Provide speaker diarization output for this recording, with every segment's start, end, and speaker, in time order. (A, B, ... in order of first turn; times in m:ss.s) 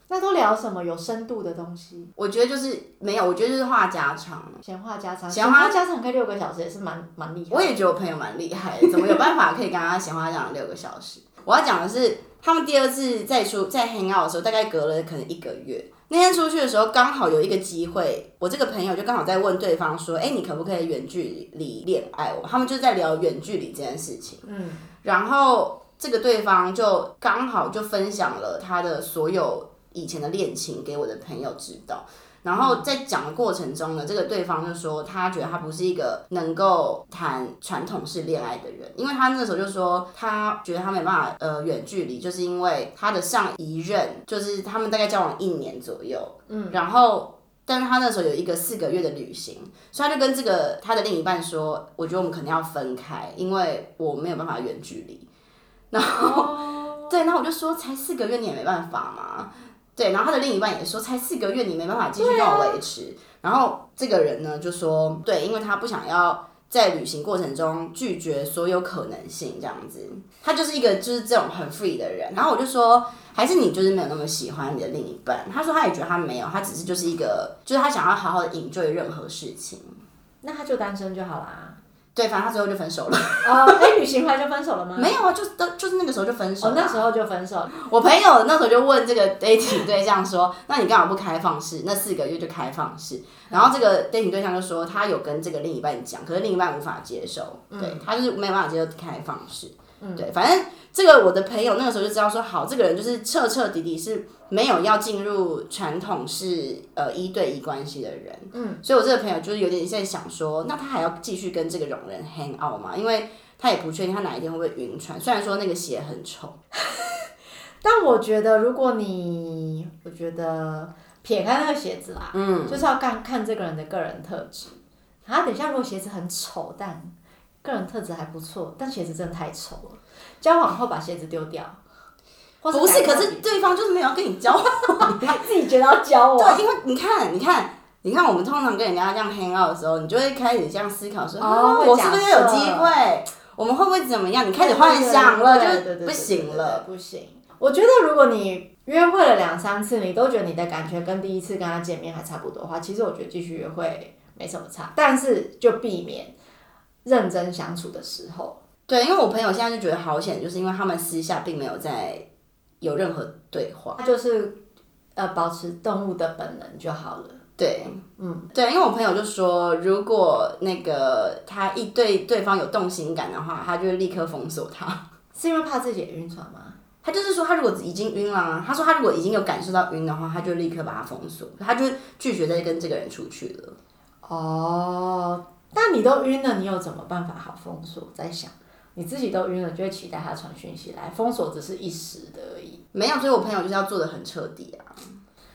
0:00.1-0:02.1 A
0:02.2-0:04.6 B
0:04.6-0:07.8 A
0:05.3-0:05.8 B
0:07.5-0:24.4 B
0:24.4-0:24.9 A
0:25.0-0:55.3 B
0:32.6-0:32.8 A
0:46.5-0:46.8 A
0:55.9-1:20.0 B
0:56.1-0:57.2 A
1:02.2-1:02.8 A
1:20.4-1:21.8 A
1:22.2-1:23.8 B
1:23.4-1:25.2 A
1:25.0-1:27.0 B
1:26.6-1:27.7 A
1:27.7-1:56.6 B
1:33.5-1:33.8 A
1:37.7-1:38.0 A
1:40.0-1:40.3 A
1:48.5-1:48.8 A
1:57.8-2:11.8 A
2:02.3-2:02.8 B
2:12.6-2:13.4 A
2:12.7-2:15.4 B
2:15.0-2:16.6 A
2:16.4-2:26.8 B
2:21.4-2:22.9 A
2:24.6-2:36.3 A
2:37.0-2:38.6 A
2:38.9-2:42.2 B
2:42.8-2:44.0 B
2:44.0-2:44.6 A
2:45.2-2:47.4 A
2:47.6-2:48.0 B
2:48.2-2:48.5 A
2:48.5-2:55.0 B
2:55.4-2:56.8 A
2:57.0-3:03.8 B
3:04.2-3:12.8 A
3:12.9-3:15.0 B